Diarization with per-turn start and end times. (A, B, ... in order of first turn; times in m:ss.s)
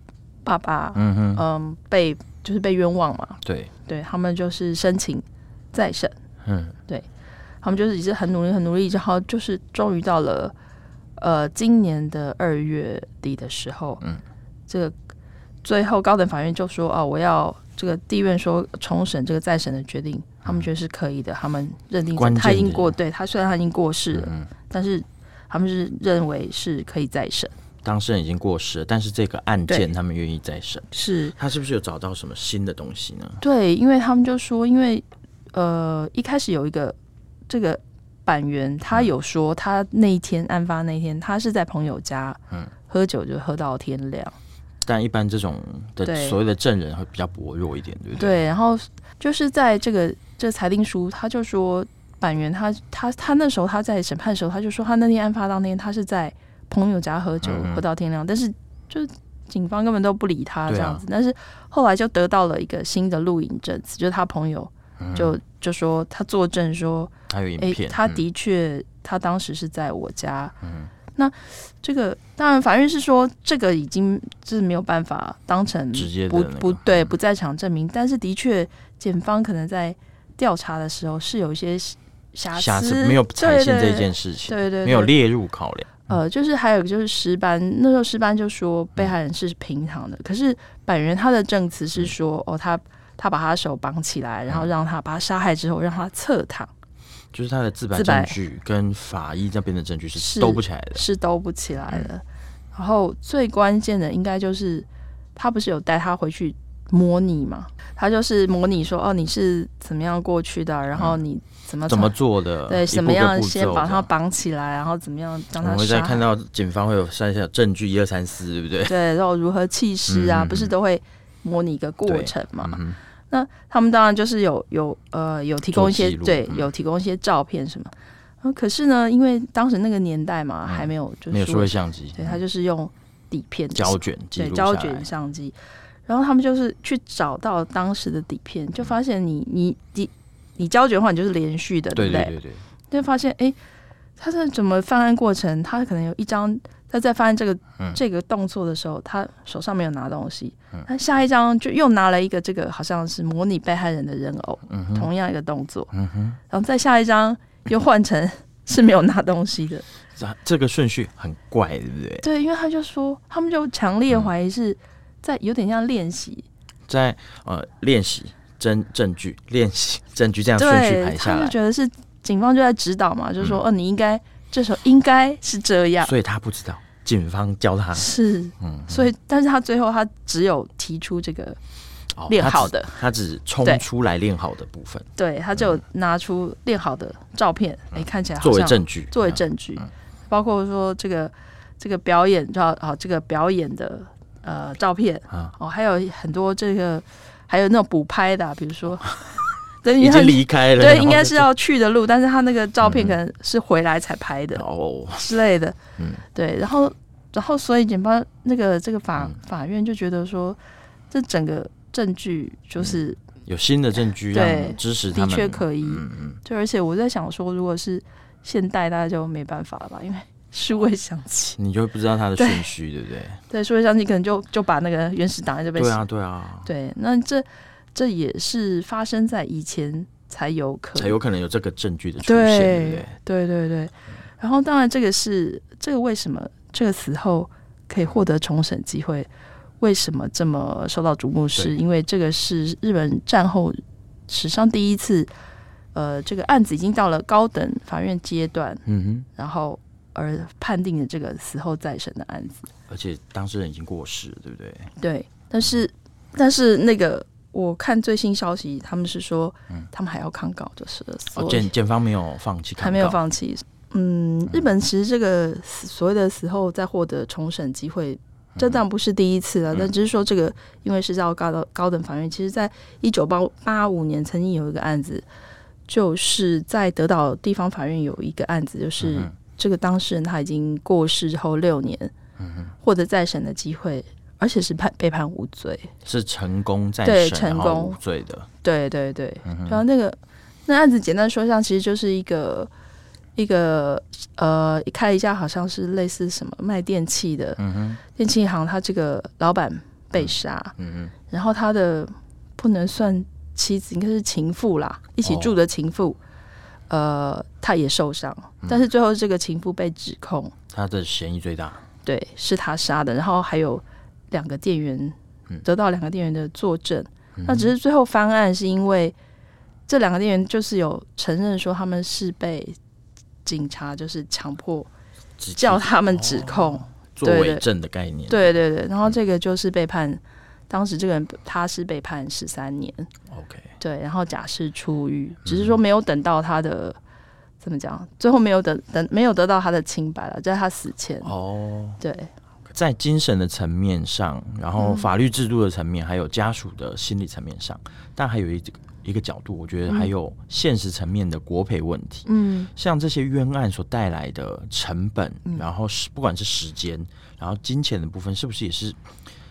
0:00.4-0:06.1 A
0:00.9-0:01.4 B
0:03.4-0:03.7 B
0:06.4-0:06.8 B
0:07.6-0:10.5 A
0:11.2-0:14.0 A
0:14.7-0:14.9 A
0:15.6-0:27.5 A
0:22.1-0:22.9 B
0:24.1-0:24.5 B
0:27.8-0:33.4 B
0:30.9-0:31.3 A
0:33.4-0:36.9 A
0:37.5-0:44.3 A
0:44.8-0:48.4 B
0:46.0-0:46.4 A
0:48.2-1:10.5 A
0:57.4-0:57.8 B
1:00.7-1:01.0 B
1:05.0-1:05.3 B
1:07.3-1:08.2 B
1:10.6-1:10.9 B
1:11.2-1:25.1 A
1:15.9-1:17.1 B
1:22.5-1:26.1 B
1:26.0-1:36.7 A
1:37.3-1:41.0 B
1:37.9-1:38.4 A
1:40.2-1:52.1 A
1:50.9-1:51.2 B
1:51.9-1:54.1 B
1:52.6-1:56.3 A
1:55.6-1:58.9 B
1:58.8-2:07.9 A
2:00.1-2:00.7 B
2:02.0-2:03.0 B
2:05.7-2:06.7 B
2:08.4-2:15.5 A
2:10.7-2:12.4 B
2:13.7-2:15.0 B
2:16.1-2:22.3 A
2:21.9-2:22.6 B
2:22.9-2:23.6 A
2:24.2-2:35.9 A
2:34.7-2:35.1 B
2:35.9-2:36.4 B
2:36.5-2:39.8 A
2:40.2-2:42.2 B
2:42.2-2:46.4 A
2:46.9-2:51.6 B
2:50.6-2:56.1 A
2:56.0-2:59.0 B
2:57.9-3:01.6 A
3:02.2-3:05.1 B
3:02.3-3:03.0 A
3:05.2-3:19.2 A
3:07.9-3:09.4 B
3:19.0-3:21.5 B
3:19.8-3:24.6 A
3:22.8-3:23.2 B
3:24.6-3:25.3 B
3:25.2-3:25.8 A
3:26.0-3:26.2 B
3:26.3-3:30.6 A
3:31.1-3:33.2 A
3:32.8-3:36.4 B
3:34.3-3:41.6 A
3:41.6-3:43.4 B
3:42.4-3:42.7 A
3:43.5-3:46.0 A
3:45.8-3:46.7 B
3:46.6-3:51.2 A
3:51.0-3:53.1 B
3:52.2-3:59.3 A
3:59.8-4:03.8 A
4:04.3-4:05.3 A
4:05.9-4:08.8 A
4:08.8-4:09.3 B
4:09.4-4:12.7 A
4:12.9-4:14.9 B
4:15.0-4:21.7 A
4:21.3-4:23.2 B
4:22.8-4:35.2 A
4:35.9-4:42.1 A
4:39.0-4:39.3 B
4:42.4-4:42.7 B
4:42.8-4:45.9 A
4:46.0-4:48.5 B
4:47.0-4:48.0 A
4:48.6-4:52.7 A
4:49.4-4:49.8 B
4:53.4-5:00.8 A
4:57.6-4:58.0 B
5:00.2-5:01.1 B
5:01.3-5:06.2 A
5:05.2-5:05.5 B
5:06.9-5:10.5 A
5:10.7-5:11.8 B
5:12.0-5:19.1 A
5:17.4-5:17.7 B
5:19.9-5:22.7 A
5:23.4-5:24.9 A
5:25.4-5:29.1 B
5:25.6-5:27.6 A
5:28.3-5:33.1 A
5:33.3-5:33.7 B
5:33.8-5:37.0 A
5:35.4-5:35.8 B
5:37.6-5:41.3 A
5:41.2-5:42.0 B
5:42.0-5:42.3 A
5:42.6-5:59.0 B
5:44.8-5:45.1 A
5:52.2-5:52.7 A